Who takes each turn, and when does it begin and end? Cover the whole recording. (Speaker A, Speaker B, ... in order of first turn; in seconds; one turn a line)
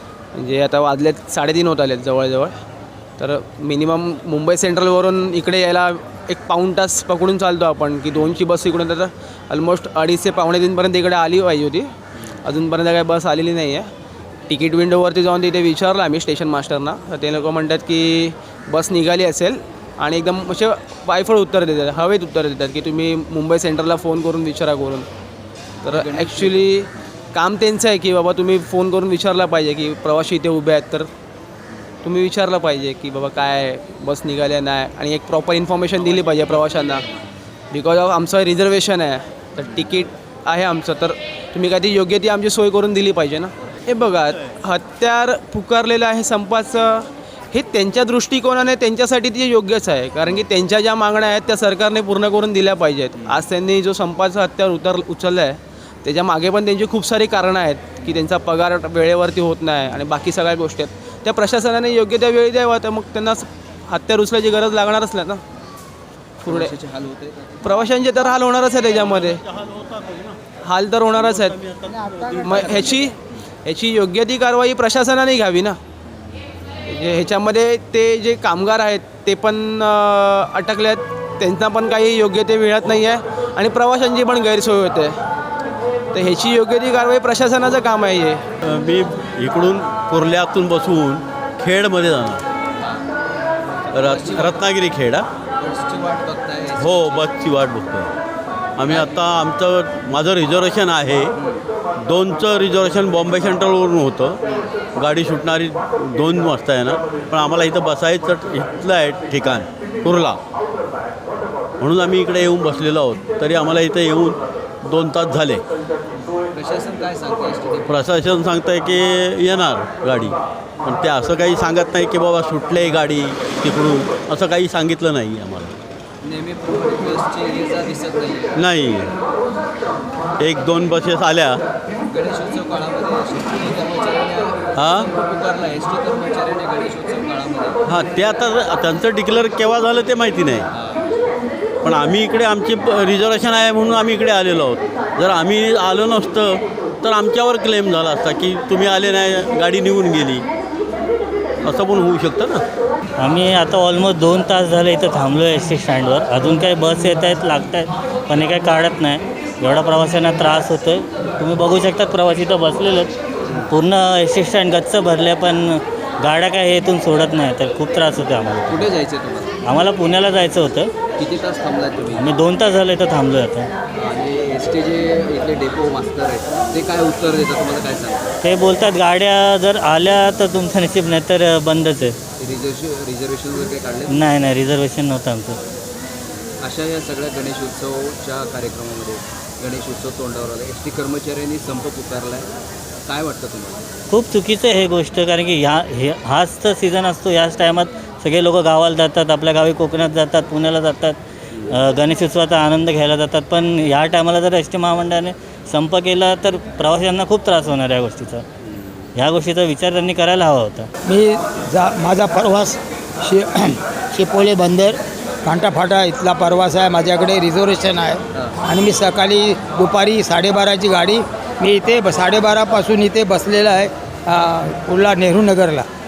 Speaker A: 0.3-2.5
Speaker A: 3.2-11.9
Speaker A: 12.4-13.9
Speaker A: 14.5-25.1
Speaker B: 25.8-26.7
Speaker A: 25.8-31.1
Speaker A: 32.0-37.0
Speaker A: 37.7-65.4
Speaker A: 66.4-66.7
Speaker B: 66.5-67.7
Speaker A: 67.6-69.4
Speaker C: 69.6-70.3
Speaker A: 70.6-71.6
Speaker C: 71.8-72.6
Speaker A: 72.4-75.8
Speaker A: 76.9-85.2
Speaker A: 86.1-88.4
Speaker C: 88.7-92.4
Speaker B: 92.8-93.0
Speaker B: 93.9-94.7
Speaker C: 94.0-95.2
Speaker B: 95.6-97.3
Speaker C: 96.8-98.1
Speaker B: 98.9-99.3
Speaker C: 98.9-101.3
Speaker B: 101.4-101.6
Speaker C: 102.1-104.4
Speaker C: 105.0-110.4
Speaker C: 111.8-115.6
Speaker B: 116.2-118.3
Speaker C: 117.9-120.3
Speaker C: 120.9-125.7
Speaker B: 126.2-128.6
Speaker C: 128.6-129.1
Speaker C: 130.4-131.6
Speaker B: 132.1-137.8
Speaker C: 137.9-140.6
Speaker B: 140.7-141.1
Speaker C: 141.8-150.4
Speaker C: 151.7-152.6
Speaker D: 153.2-163.1
Speaker D: 163.7-168.8
Speaker B: 168.7-169.6
Speaker D: 169.6-170.9
Speaker B: 171.2-172.3
Speaker D: 172.2-173.7
Speaker B: 173.9-178.3
Speaker D: 178.4-182.2
Speaker B: 182.4-184.2
Speaker D: 184.1-185.6
Speaker B: 186.6-192.5
Speaker B: 193.1-193.9
Speaker D: 194.1-201.2
Speaker D: 201.7-208.4
Speaker D: 209.2-210.9
Speaker E: 211.1-225.9